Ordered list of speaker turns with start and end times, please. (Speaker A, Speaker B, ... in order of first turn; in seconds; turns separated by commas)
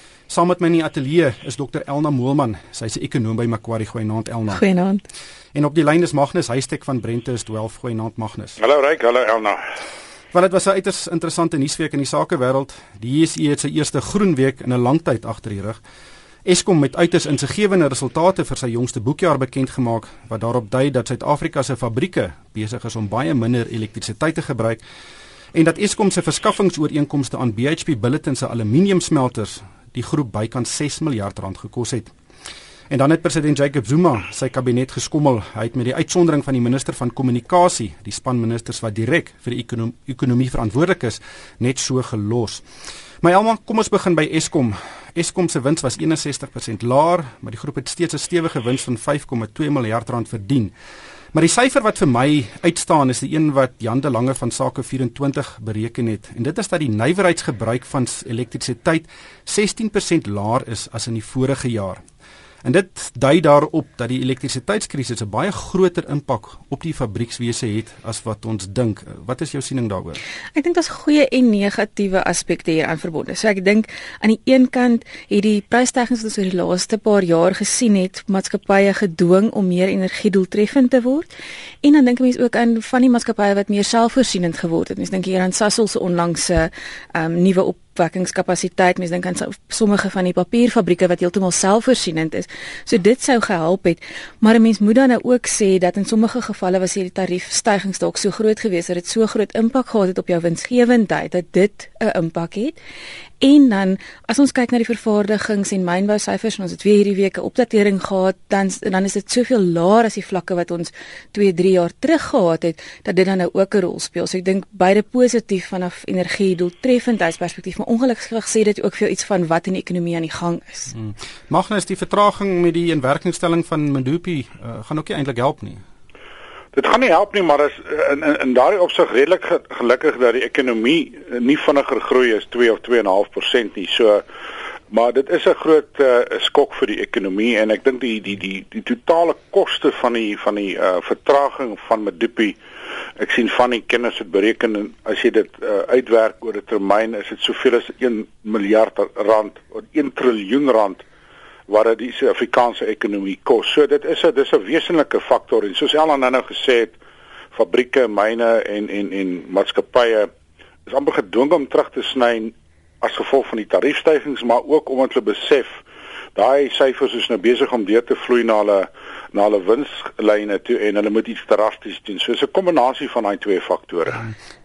Speaker A: 0.3-4.6, Speaker B: 4.5-5.0, Speaker A: 5.5-8.6, Speaker C: 8.6-9.6, Speaker A: 10.3-15.8, Speaker A: 16.5-24.8, Speaker A: 25.5-32.1, Speaker A: 32.9-42.6, Speaker A: 43.2-50.7, Speaker A: 51.3-62.0, Speaker A: 62.6-70.2, Speaker B: 70.5-81.3, Speaker B: 81.8-102.8, Speaker B: 103.4-120.9, Speaker A: 120.9-125.8, Speaker C: 126.7-134.2, Speaker C: 134.9-142.6, Speaker C: 143.2-151.0, Speaker C: 151.7-157.0, Speaker C: 157.5-160.3, Speaker C: 160.9-165.8, Speaker C: 166.3-174.3